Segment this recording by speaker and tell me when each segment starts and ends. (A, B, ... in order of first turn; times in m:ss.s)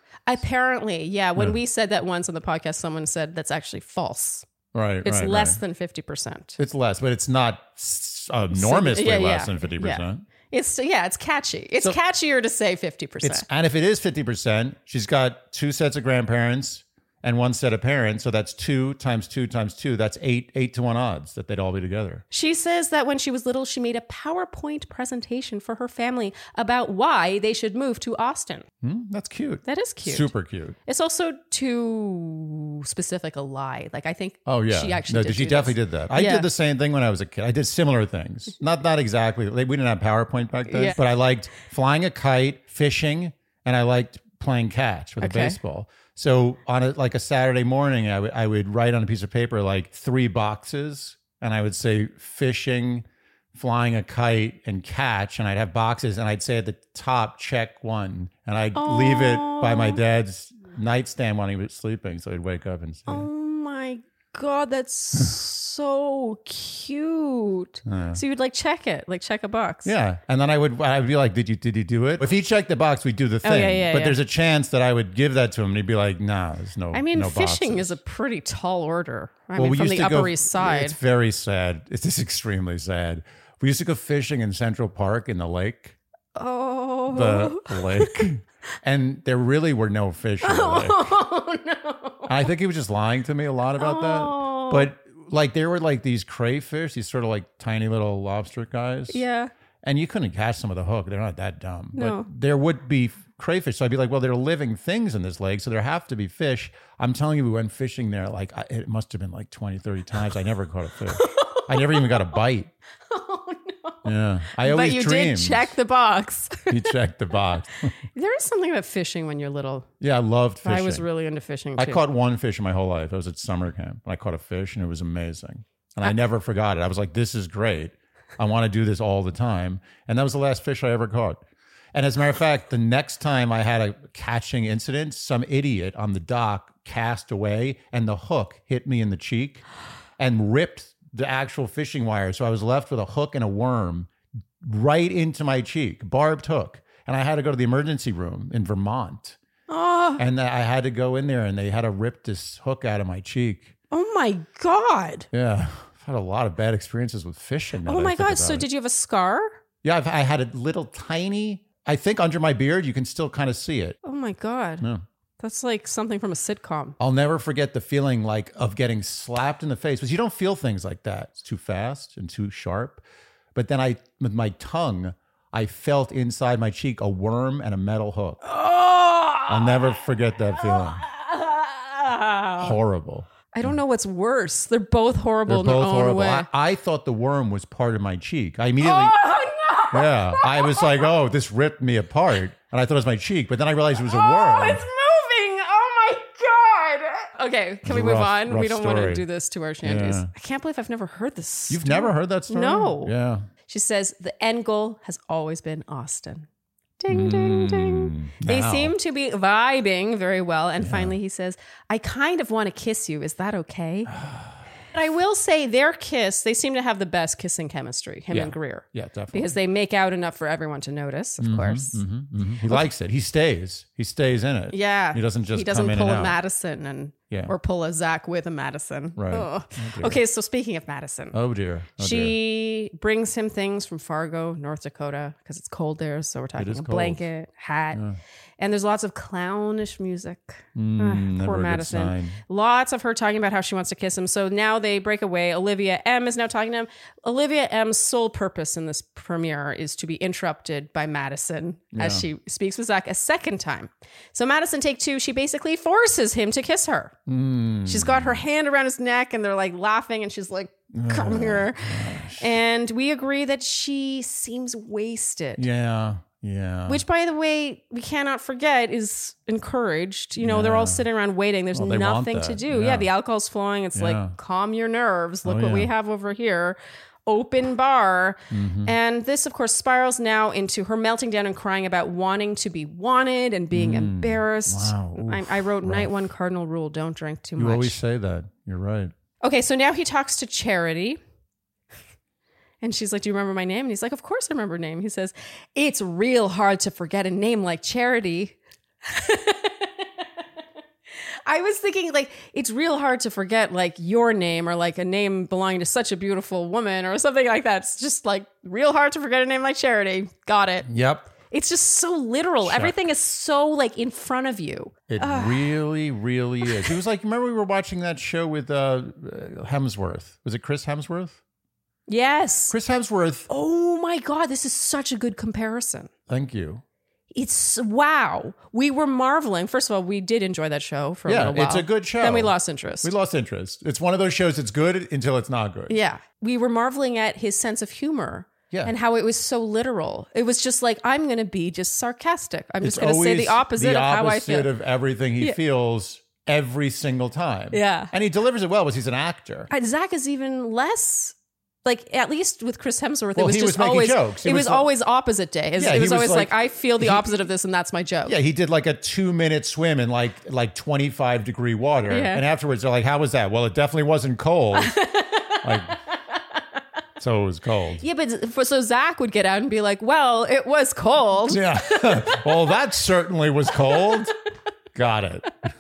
0:00.3-0:04.5 A
0:04.7-0:05.6 B
0:05.0-0:06.6 A
0:06.6-0:10.3 B
0:08.5-0:13.5 A
0:13.2-0:22.2 B
0:22.3-0:28.7 A
0:28.8-0:30.8 B
0:29.6-0:30.3 A
0:30.8-0:36.5 A
0:34.5-1:03.3 B
0:40.7-0:41.0 A
0:45.2-0:45.6 A
0:58.8-1:00.0 A
1:03.1-1:09.9 A
1:07.9-1:08.2 B
1:09.8-1:18.0 B
1:13.4-1:14.2 A
1:16.9-1:21.0 A
1:19.6-1:26.0 B
1:26.4-1:28.3 A
1:27.1-1:31.0 B
1:30.4-1:32.3 A
1:32.3-1:39.2 B
1:33.8-1:34.9 A
1:39.1-1:39.5 A
1:39.8-1:52.7 B
1:42.0-1:42.3 A
1:51.1-1:52.4 A
1:53.1-1:57.0 A
1:54.0-1:55.8 B
1:56.7-1:58.0 B
1:58.1-1:59.9 A
2:00.0-2:01.1 B
2:00.6-2:02.0 A
2:01.8-2:11.4 B
2:11.9-2:19.6 B
2:20.2-2:24.1 B
2:24.6-2:29.4 B
2:29.7-2:30.2 A
2:30.2-2:33.8 B
2:33.9-2:35.3 A
2:35.3-2:38.7 B
2:37.9-2:39.6 A
2:39.8-2:44.0 B
2:44.0-2:44.8 A
2:45.4-2:47.0 A
2:47.0-2:53.0 B
2:53.6-2:58.4 B
2:58.4-3:00.0 A
2:59.5-3:01.0 B
3:00.6-3:02.8 A
3:02.6-3:03.3 B
3:03.5-3:06.5 A
3:05.5-3:09.2 B
3:08.8-3:11.1 A
3:09.9-3:14.8 B
3:14.0-3:23.1 A
3:17.9-3:19.2 B
3:19.8-3:20.3 B
3:21.7-3:23.5 B
3:23.7-3:26.5 A
3:27.0-3:34.1 A
3:27.1-3:28.9 B
3:30.8-3:31.2 B
3:34.1-3:34.5 B
3:34.9-3:42.0 A
3:38.3-3:39.6 B
3:41.4-3:46.4 B
3:44.7-3:51.4 A
3:49.2-3:50.2 B
3:51.3-3:52.4 B
3:52.0-3:58.0 A
3:56.6-3:57.2 B
3:57.9-3:58.2 B
3:58.6-4:17.2 A
4:00.8-4:02.4 B
4:11.9-4:12.3 B
4:17.3-4:18.4 B
4:17.8-4:25.6 A
4:20.9-4:22.5 B
4:25.6-4:27.0 B
4:26.9-4:48.0 A
4:30.4-4:31.0 B
4:31.7-4:33.1 B
4:34.0-4:34.4 B
4:35.4-4:35.9 B
4:38.5-4:38.9 B
4:43.7-4:46.1 B
4:47.6-4:49.1 B
4:49.4-4:51.2 A
4:52.8-5:00.2 A
5:01.5-5:15.8 A
5:10.9-5:11.3 B
5:12.6-5:13.0 B
5:15.1-5:21.4 B
5:16.6-5:17.0 A
5:22.1-5:22.8 A
5:22.7-5:23.5 B
5:23.5-5:26.1 A
5:26.3-5:26.8 B
5:27.3-5:33.1 A
5:31.3-5:36.0 B
5:35.9-5:44.7 A
5:42.8-5:49.7 B
5:47.7-5:48.1 A
5:49.7-5:58.4 A
5:53.4-5:54.9 B
5:55.8-5:57.4 B
5:58.2-6:05.0 B
6:02.1-6:02.4 A
6:04.8-6:05.8 A
6:05.6-6:06.0 B
6:06.4-6:06.6 A
6:07.2-6:08.0 B
6:08.0-6:12.4 A
6:11.5-6:14.4 B
6:13.8-6:14.3 A
6:15.0-6:15.5 B